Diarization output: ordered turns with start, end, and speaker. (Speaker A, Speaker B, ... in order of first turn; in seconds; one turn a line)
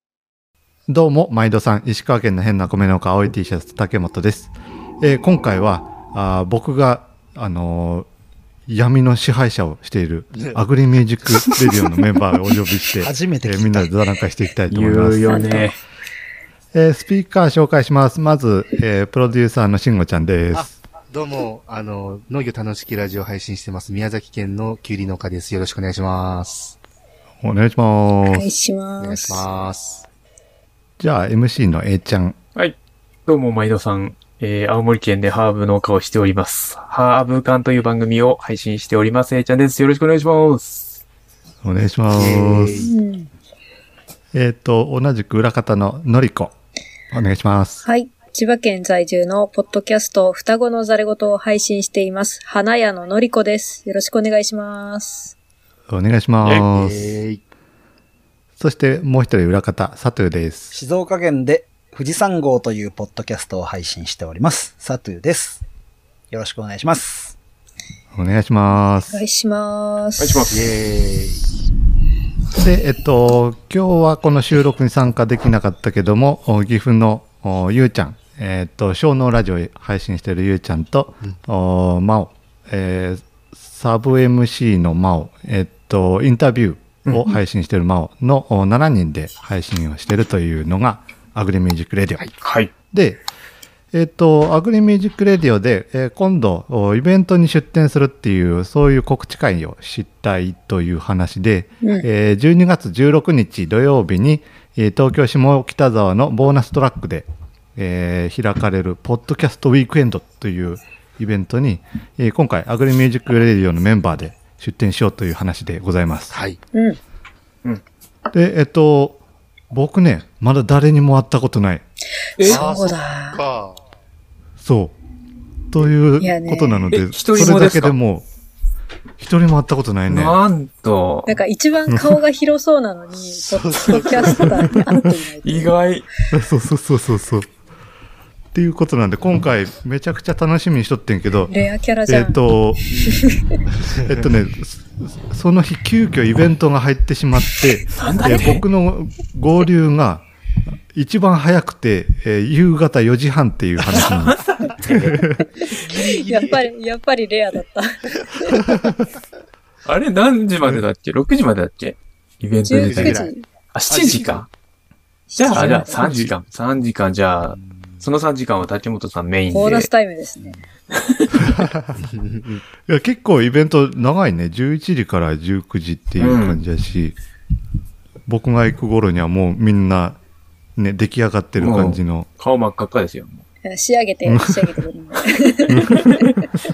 Speaker A: 0.9-8.1
Speaker A: 8.7-15.6
Speaker B: 10.3-10.6
Speaker C: 13.0-13.9
Speaker D: 14.7-15.8
Speaker E: 15.3-15.7
Speaker A: 16.7-20.7
Speaker B: 20.5-26.8
Speaker A: 27.4-28.5
Speaker E: 28.2-29.4
Speaker B: 29.0-30.1
Speaker A: 31.0-32.4
Speaker D: 32.5-41.0
Speaker A: 41.6-42.9
Speaker B: 42.1-42.9
Speaker E: 42.8-43.3
Speaker A: 44.3-46.5
Speaker A: 47.1-47.8
Speaker E: 47.8-55.3
Speaker A: 55.9-57.0
Speaker B: 56.7-57.4
Speaker A: 58.6-60.8
Speaker C: 60.7-65.6
Speaker C: 66.3-67.3
Speaker A: 68.1-69.2
Speaker E: 69.1-70.3
Speaker D: 70.2-70.7
Speaker B: 70.5-71.5
Speaker A: 72.6-92.2
Speaker D: 87.0-87.4
Speaker D: 92.4-92.7
Speaker A: 92.9-93.2
Speaker A: 93.9-116.3
Speaker E: 101.8-102.0
Speaker B: 116.3-116.6
Speaker E: 116.7-117.0
Speaker A: 118.3-121.8
Speaker D: 122.4-122.6
Speaker B: 122.4-123.8
Speaker E: 122.5-123.4
Speaker A: 124.6-124.9
Speaker A: 125.7-128.3
Speaker E: 126.2-126.9
Speaker D: 126.9-128.0
Speaker A: 129.2-130.4
Speaker D: 130.1-131.3
Speaker E: 131.2-135.7
Speaker B: 133.2-134.5
Speaker A: 134.2-135.1
Speaker D: 135.4-136.1
Speaker A: 136.3-137.5
Speaker A: 138.5-143.0
Speaker E: 141.5-142.4
Speaker E: 143.1-143.4
Speaker B: 143.8-144.2
Speaker A: 144.1-150.2
Speaker E: 147.9-148.5
Speaker D: 147.9-148.6
Speaker A: 150.9-155.4
Speaker D: 153.9-154.9
Speaker B: 153.9-154.3
Speaker B: 155.6-156.7
Speaker E: 155.6-158.6
Speaker D: 159.8-163.2
Speaker E: 162.6-163.4
Speaker B: 162.7-163.3
Speaker D: 163.7-164.5
Speaker B: 163.9-164.4
Speaker E: 165.3-166.2
Speaker D: 165.4-169.9
Speaker A: 165.5-166.2
Speaker B: 167.4-168.1
Speaker E: 169.5-170.6
Speaker B: 171.9-172.6
Speaker A: 172.8-177.2
Speaker D: 176.2-176.6
Speaker A: 178.3-180.2
Speaker A: 180.8-182.3
Speaker D: 181.6-183.4
Speaker E: 183.6-186.4
Speaker A: 184.2-184.8
Speaker A: 185.7-186.5